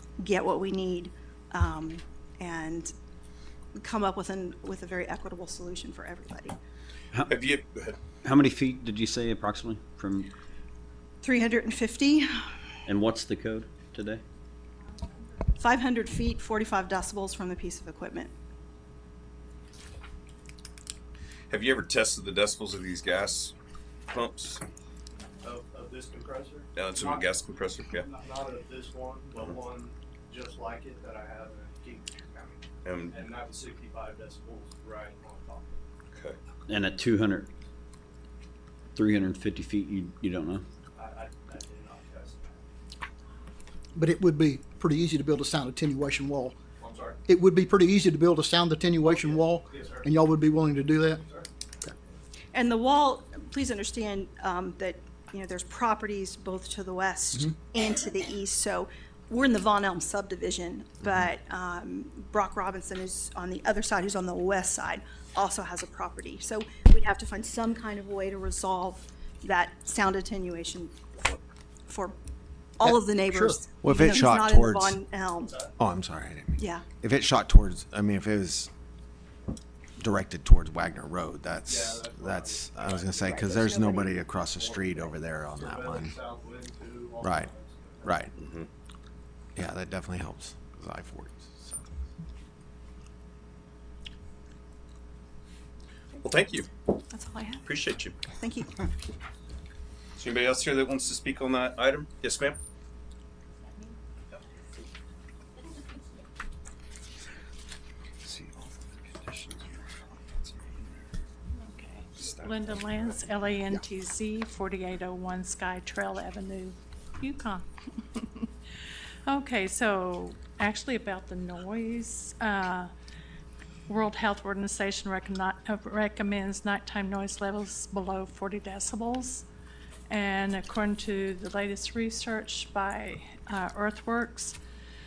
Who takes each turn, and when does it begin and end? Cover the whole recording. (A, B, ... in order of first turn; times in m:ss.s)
0:00.2-0:02.9 A
0:03.8-0:06.6 A
0:07.2-0:08.1 B
0:08.2-0:10.3 C
0:11.2-0:12.5 A
0:12.9-0:14.2 C
0:15.6-0:18.3 A
0:21.5-0:23.5 B
0:24.1-0:24.6 B
0:25.4-0:27.4 D
0:26.8-0:28.1 B
0:27.9-0:35.8 D
0:32.8-0:33.2 B
0:36.1-0:36.4 B
0:36.7-0:37.5 C
0:39.0-0:40.6 C
0:40.9-0:42.6 D
0:44.0-0:46.6 E
0:46.8-0:47.2 D
0:47.2-0:51.2 E
0:49.0-0:50.2 D
0:51.1-0:51.5 D
0:52.5-1:12.2 A
1:12.8-1:15.6 A
1:12.9-1:13.7 E
1:13.8-1:15.0 F
1:15.4-1:15.7 D
1:15.8-1:18.7 F
1:16.6-1:16.8 A
1:20.0-1:26.2 F
1:21.7-1:23.8 D
1:23.2-1:24.2 A
1:24.3-1:25.0 D
1:25.6-1:28.3 D
1:27.2-1:27.5 F
1:28.0-1:28.3 F
1:28.4-1:28.7 B
1:29.6-1:31.9 F
1:36.2-1:36.7 B
1:37.1-1:37.7 A
1:37.6-1:38.2 B
1:38.3-1:38.9 A
1:40.2-1:42.6 B
1:48.2-1:50.9 B
1:51.6-1:58.5 G
1:52.2-1:52.7 B
1:59.3-2:02.9 G
2:03.9-2:09.5 G
2:10.1-2:14.6 G